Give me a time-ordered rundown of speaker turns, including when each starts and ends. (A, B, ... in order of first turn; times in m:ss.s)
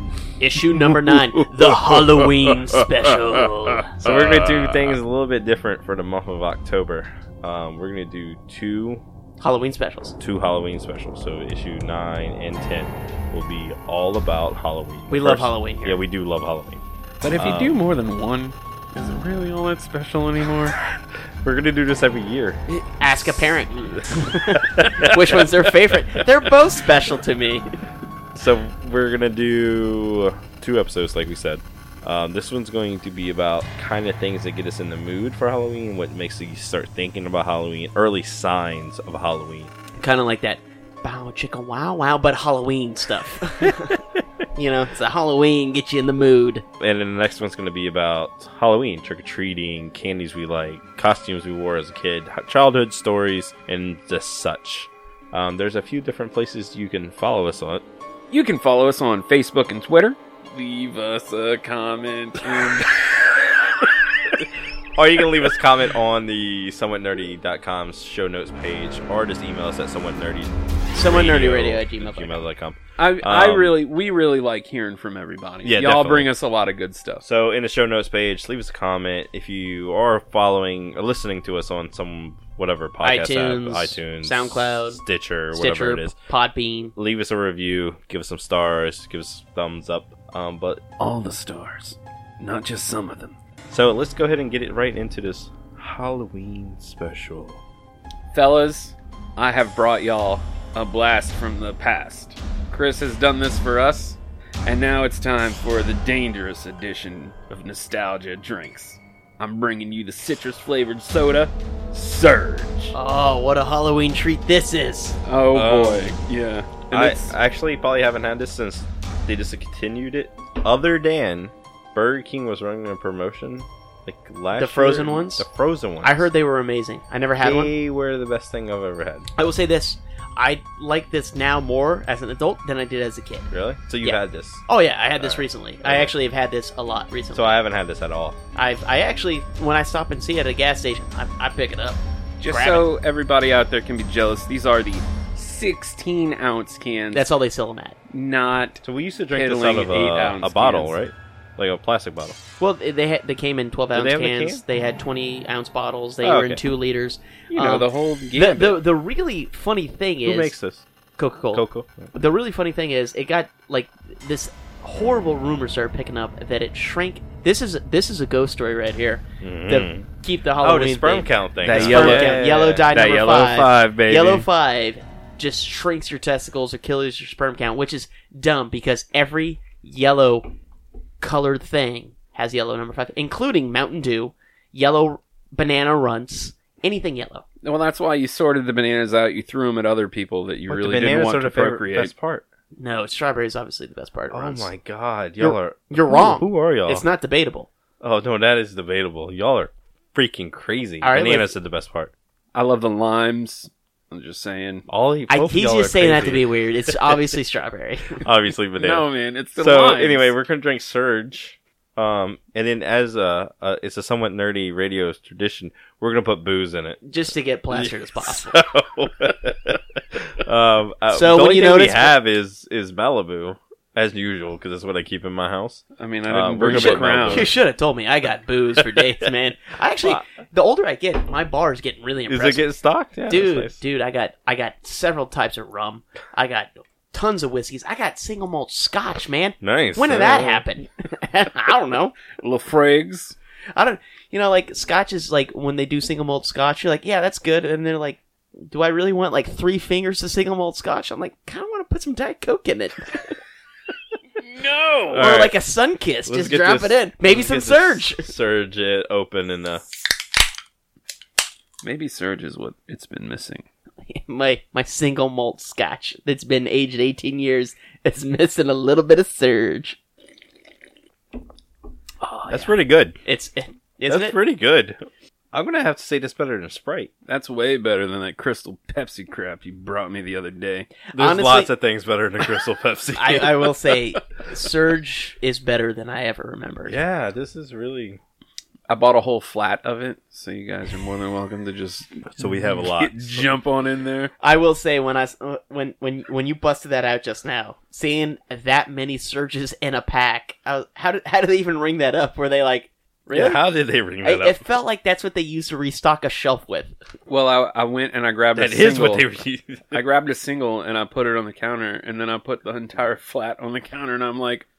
0:00.4-0:04.0 A
0:04.0-0:09.0 B
0:09.4-0:10.1 A
0:10.2-0:17.8 B
0:15.1-0:16.0 A
0:17.2-0:20.8 C
0:21.4-0:22.6 B
0:22.7-0:27.7 A
0:24.6-0:25.4 B
0:28.3-0:39.7 B
0:40.0-0:44.0 A
0:43.6-0:44.0 B
0:44.6-0:46.6 A
0:46.8-0:57.8 B
0:58.3-1:03.0 C
1:05.0-1:13.8 B
1:10.9-1:12.4 A
1:13.0-1:17.2 C
1:15.6-1:16.3 B
1:17.2-1:26.2 B
1:23.0-1:25.0 A
1:25.5-1:26.9 A
1:27.0-1:30.8 B
1:31.0-1:33.4 C
1:33.7-1:37.6 B
1:38.3-1:53.0 C
1:52.9-1:55.2 A
1:55.3-1:57.4 C
1:55.5-1:56.2 B
1:56.9-2:06.3 B
2:04.5-2:05.5 A
2:06.0-2:07.7 A
2:07.4-2:09.3 B
2:09.4-2:17.6 A
2:13.5-2:14.7 B
2:15.2-2:16.1 B
2:17.3-2:18.4 B
2:18.6-2:22.9 A
2:22.4-2:27.3 C
2:27.1-2:28.0 A
2:28.1-2:28.8 C
2:28.8-2:32.4 B
2:29.3-2:31.0 C
2:32.6-2:40.6 A
2:33.9-2:34.6 B
2:36.2-2:36.6 B
2:37.5-2:38.8 C
2:40.2-2:40.9 B
2:41.2-3:00.5 A
2:41.5-2:42.1 B
2:49.4-2:52.9 B
2:51.6-2:54.5 C
3:01.2-3:07.4 A
3:07.6-3:12.1 C
3:10.7-3:12.5 B
3:12.8-3:14.7 A
3:14.3-3:17.0 B
3:15.4-3:17.7 A
3:18.0-3:22.1 B
3:21.0-3:21.5 A
3:22.6-3:24.9 C
3:24.9-3:27.2 B
3:25.3-3:28.3 A
3:28.2-3:37.0 B
3:28.8-3:30.3 C
3:37.0-3:38.6 A
3:37.7-3:47.5 B
3:41.1-3:42.2 A
3:46.0-3:47.5 C
3:46.7-3:52.7 A
3:48.8-3:49.3 B
3:50.0-3:50.2 B
3:52.3-3:53.8 B
3:53.3-4:02.1 A
3:59.6-4:00.6 B
4:02.4-4:03.4 C
4:03.8-4:13.4 A
4:14.4-4:15.3 C
4:15.1-4:15.6 B
4:15.2-4:18.3 A
4:16.3-4:19.8 B
4:21.8-4:23.7 C
4:24.1-4:30.0 A
4:32.2-4:34.4 A
4:32.5-4:33.2 B
4:34.1-4:35.0 B
4:35.5-4:37.1 B
4:37.3-4:40.9 C
4:41.1-4:41.7 A
4:41.1-4:43.7 B
4:43.2-4:47.0 A
4:46.9-4:48.2 B
4:48.9-4:54.3 C
4:52.3-4:53.5 B
4:54.4-5:03.6 A
5:03.3-5:04.6 B
5:04.2-5:07.0 A
5:07.3-5:09.3 C
5:08.6-5:10.0 B
5:09.9-5:14.7 C